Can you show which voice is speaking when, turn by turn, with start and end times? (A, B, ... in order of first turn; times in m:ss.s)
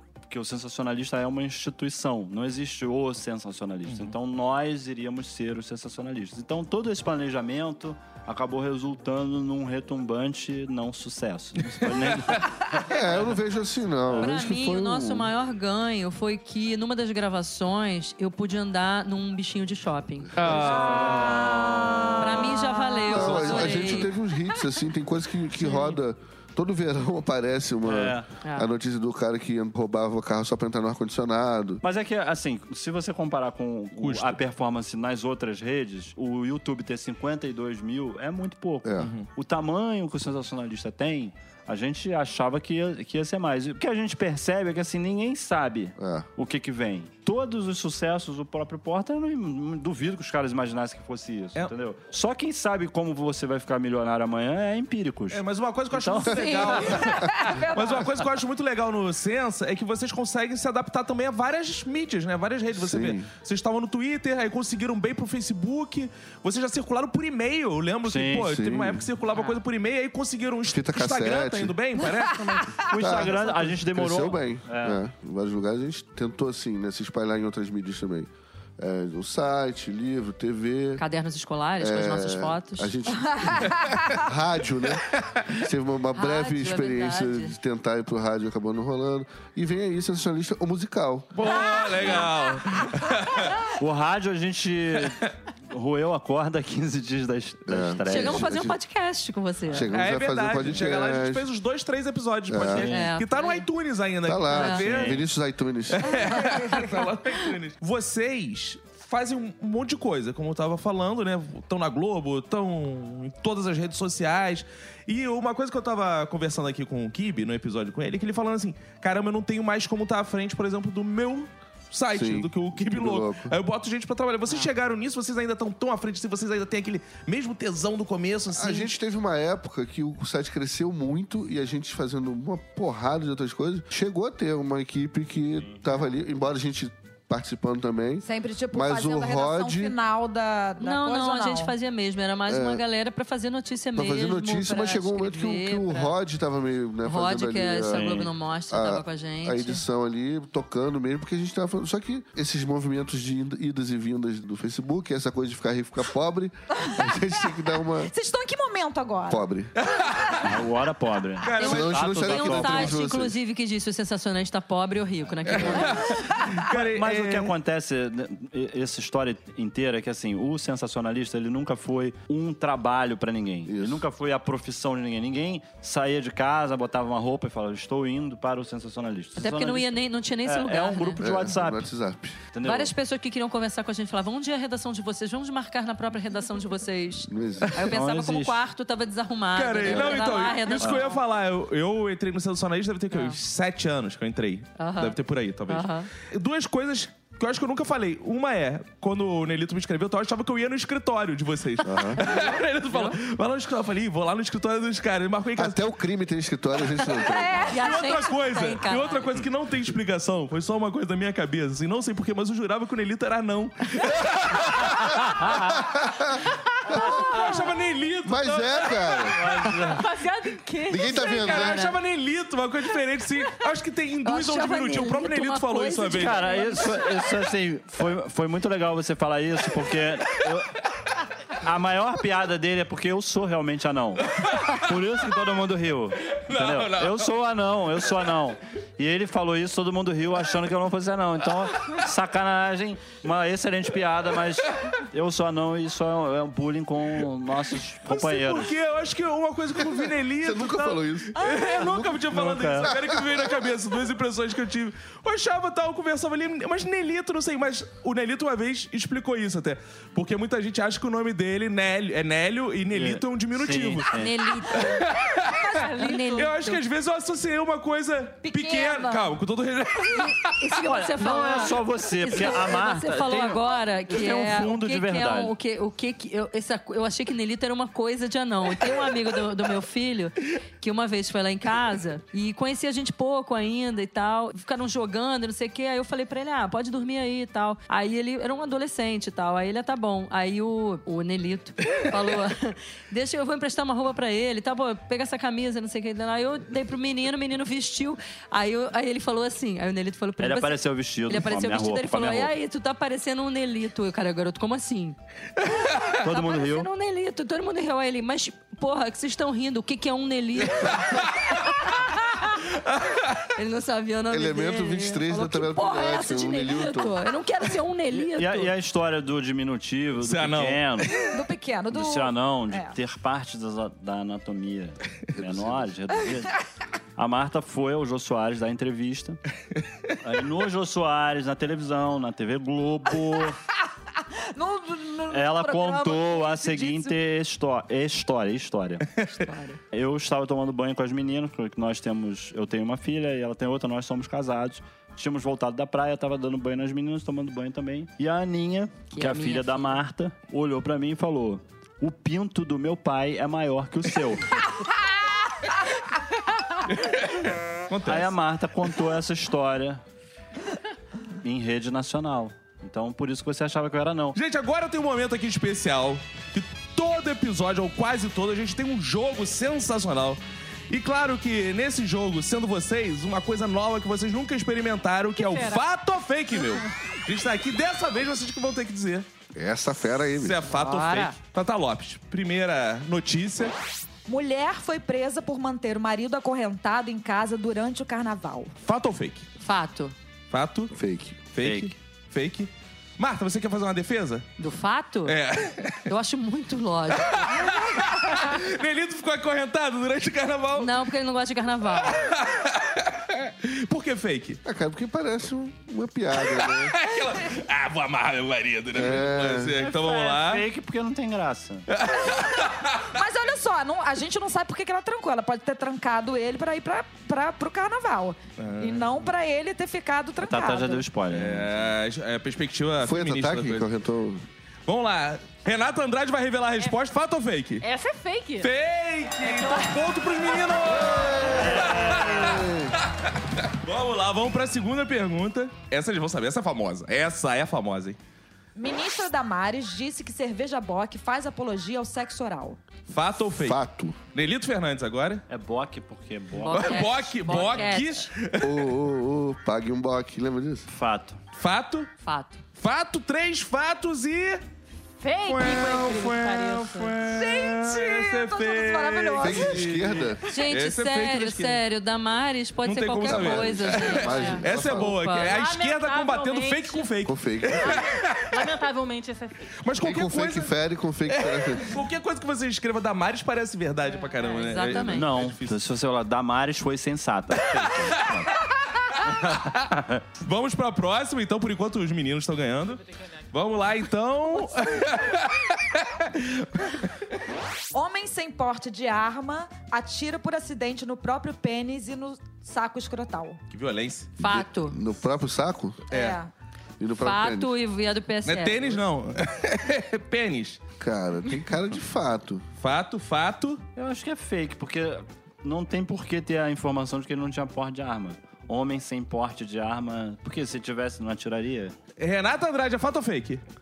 0:00.3-0:12.5 A
0:03.9-0:04.1 B
0:11.7-0:12.4 B
0:12.8-0:15.3 C
0:14.1-0:14.4 A
0:14.2-0:20.4 D
0:20.4-0:20.9 C
0:20.4-0:21.8 B
0:20.4-0:21.7 A
0:20.5-0:24.0 E
0:21.8-0:22.5 C
0:22.2-0:24.1 D
0:23.0-0:31.8 C
0:25.6-0:26.0 D
0:27.8-0:28.3 A
0:28.4-0:28.7 D
0:31.8-0:57.1 A
0:33.9-0:34.4 B
0:38.8-0:39.1 C
0:39.0-0:39.3 B
0:46.0-0:46.3 C
0:55.3-1:12.8 B
0:56.2-0:58.3 E
0:57.0-0:57.3 C
1:02.7-1:03.3 C
1:08.0-1:08.5 A
1:08.4-1:09.1 C
1:09.3-1:09.6 D
1:10.7-1:11.8 C
1:12.8-1:21.0 C
1:12.8-1:15.0 A
1:21.0-1:23.0 D
1:21.8-1:32.2 C
1:25.1-1:25.5 B
1:26.1-1:27.6 D
1:31.3-1:33.7 B
1:33.8-1:38.5 A
1:35.0-1:35.3 B
1:37.7-1:38.8 C
1:38.0-1:40.0 D
1:39.7-1:41.5 C
1:39.9-1:45.2 B
1:42.5-1:42.9 C
1:42.6-1:43.1 A
1:42.7-1:43.6 D
1:44.2-1:46.4 C
1:44.5-1:44.9 D
1:44.7-1:45.2 A
1:45.9-2:08.9 B
2:02.1-2:03.6 C
2:08.5-2:20.0 C
2:18.2-2:21.7 E
2:20.8-2:26.2 D
2:22.5-2:22.8 C
2:24.0-2:38.1 C
2:27.0-2:29.8 D
2:38.0-2:39.4 E
2:39.3-2:39.7 C
2:39.8-2:40.5 B
2:40.4-2:43.0 A
2:41.4-2:41.9 B
2:41.6-2:43.4 C
2:41.6-2:46.3 D
2:45.5-2:47.5 B
2:45.5-2:46.0 A
2:46.6-2:59.9 A
2:53.7-2:54.0 C
2:59.4-3:01.2 D
3:00.4-3:01.9 A
3:01.2-3:02.4 C
3:02.5-3:02.9 A
3:02.6-3:11.2 D
3:07.3-3:07.8 C
3:07.8-3:08.6 A
3:09.6-3:25.8 B
3:09.8-3:10.3 C
3:13.1-3:13.4 D
3:14.8-3:16.1 D
3:21.8-3:22.2 C
3:22.2-3:23.2 D
3:25.6-3:27.7 C
3:27.1-3:28.0 E
3:27.7-3:29.4 D
3:27.7-3:35.8 B
3:35.5-3:37.3 C
3:36.9-3:39.4 B
3:36.9-3:37.4 F
3:38.2-3:39.4 C
3:39.3-3:40.0 A
3:40.0-3:41.8 F
3:40.9-3:41.9 C
3:41.3-3:46.5 B
3:41.5-3:41.9 D
3:44.2-3:47.2 D
3:46.1-3:50.8 A
3:51.5-4:08.7 A
3:54.4-3:54.8 B
3:56.3-3:57.3 B
4:08.1-4:24.1 B
4:09.8-4:12.3 C
4:11.4-4:11.8 E
4:12.3-4:12.9 A
4:12.8-4:13.5 C
4:22.9-4:24.4 A
4:24.1-4:25.0 D
4:24.6-4:30.8 B
4:25.4-4:26.5 E
4:25.7-4:26.5 F
4:25.9-4:26.8 D
4:28.4-4:29.3 E
4:30.6-5:05.2 D
4:30.8-4:35.5 A
4:30.8-4:33.6 E
5:00.4-5:02.5 A
5:05.6-5:06.2 B
5:06.0-5:12.7 D
5:06.2-5:06.9 A
5:10.6-5:11.8 B
5:12.6-5:13.5 B
5:13.5-5:18.7 D
5:14.3-5:17.2 C
5:18.3-5:21.2 A
5:20.2-5:21.3 B
5:21.3-5:22.9 E
5:21.9-5:26.6 A
5:25.4-5:25.9 C
5:27.2-5:29.4 A
5:30.2-5:33.6 A
5:34.5-5:37.2 E
5:35.3-5:39.1 A
5:39.2-5:39.8 D
5:39.9-5:54.6 A
5:49.1-5:50.0 D
5:56.9-5:58.3 B
5:58.1-6:00.0 A
6:01.4-6:04.4 A
6:04.4-6:19.3 B
6:15.3-6:15.8 F
6:19.6-6:20.6 C
6:20.4-6:23.7 B
6:20.7-6:21.4 D
6:24.3-6:28.8 E
6:28.8-6:29.4 B
6:29.6-6:30.2 D
6:30.5-6:30.9 B
6:30.9-6:31.4 C
6:31.5-6:34.4 B
6:31.6-6:31.9 A
6:34.6-6:35.4 D
6:35.3-6:36.1 B
6:36.1-6:37.5 D
6:37.2-6:40.9 B
6:40.8-6:42.3 D
6:42.0-6:44.6 B
6:44.6-6:47.0 C
6:46.4-6:50.7 B
6:48.9-6:49.8 C
6:49.8-6:51.9 A
6:51.9-6:53.2 B
6:53.1-7:01.1 E
6:58.6-6:59.2 B
7:00.4-7:01.9 A
7:01.3-7:03.9 B
7:03.0-7:04.5 C
7:04.9-7:07.8 B
7:07.8-7:08.7 F
7:08.6-7:18.2 B
7:09.4-7:10.0 F
7:10.8-7:13.0 C
7:11.4-7:12.6 A
7:18.8-7:22.8 E
7:23.1-7:23.8 B
7:23.6-7:24.2 C
7:24.3-7:25.4 B
7:25.5-7:27.7 A
7:26.6-7:28.3 D
7:26.7-7:28.9 B
7:28.6-7:30.9 C
7:30.9-7:31.4 A
7:31.6-7:32.1 B
7:32.2-7:32.6 D
7:32.8-7:34.6 B
7:35.2-7:37.2 F
7:35.5-7:41.8 B
7:37.2-7:40.0 E
7:39.4-7:40.4 C
7:40.5-7:45.6 D
7:42.8-7:48.6 B
7:43.2-7:45.2 C
7:45.4-7:47.2 F
7:47.2-7:48.0 C
7:47.7-7:49.7 F
7:49.8-7:50.7 B
7:50.0-7:52.0 C
7:51.3-7:55.8 B
7:54.1-7:54.5 F
7:54.4-7:55.3 D
7:54.9-7:58.6 A
7:59.1-8:07.0 B
7:59.3-8:00.2 A
8:07.9-8:13.6 E
8:13.7-8:14.4 B
8:14.4-8:15.0 D
8:14.4-8:16.1 C
8:16.1-8:16.5 E
8:16.1-8:16.4 B
8:17.0-8:17.7 C
8:17.2-8:19.0 D
8:18.4-8:20.8 B
8:21.0-8:22.7 C
8:22.8-8:23.8 B
8:24.0-8:32.0 A
8:32.2-8:33.6 B